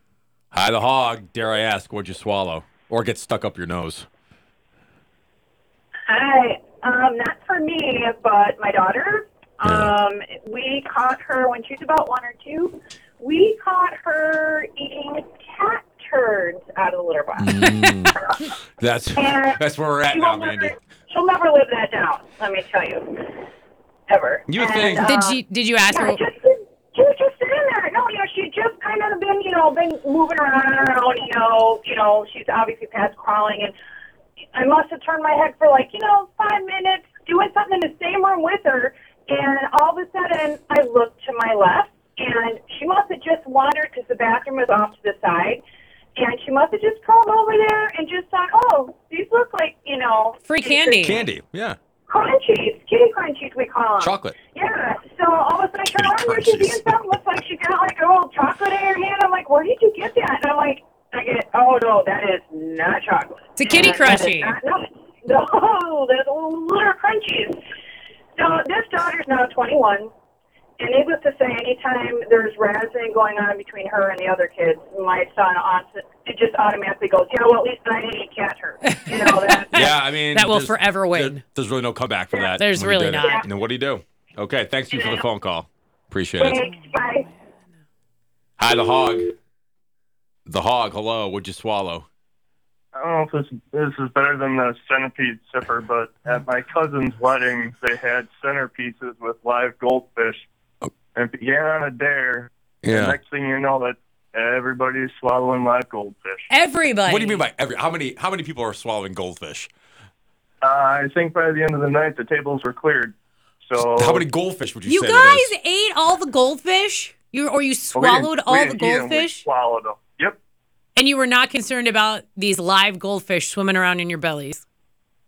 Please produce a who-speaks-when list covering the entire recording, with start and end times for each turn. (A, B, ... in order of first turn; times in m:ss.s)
0:00.5-0:04.1 A
0:06.1-0:17.6 B
0:09.6-0:09.9 A
0:17.4-0:18.2 A
0:17.6-0:17.9 C
0:18.8-0:20.7 A
0:19.2-0:23.4 B
0:24.1-0:33.7 B
0:24.5-0:25.1 A
0:25.0-0:26.2 C
0:34.5-0:45.6 B
0:46.2-0:51.2 B
0:50.4-0:51.2 C
0:51.0-0:51.8 A
0:52.1-1:07.6 B
0:54.0-0:54.4 A
0:55.9-0:56.9 A
1:03.6-1:04.5 C
1:08.4-1:10.1 B
1:10.8-1:19.9 B
1:18.8-1:21.4 C
1:19.7-1:26.6 A
1:22.5-1:23.4 C
1:23.2-1:23.4 B
1:24.9-1:25.2 B
1:26.4-1:27.2 B
1:28.6-1:29.3 A
1:30.5-1:32.1 A
1:33.0-1:40.4 D
1:41.1-1:46.5 D
1:42.8-1:43.2 A
1:46.5-1:47.4 C
1:47.0-1:49.7 A
1:50.6-1:54.2 D
1:53.9-1:55.5 A
1:54.8-1:59.4 C
1:57.9-2:00.4 D
2:01.0-2:04.6 C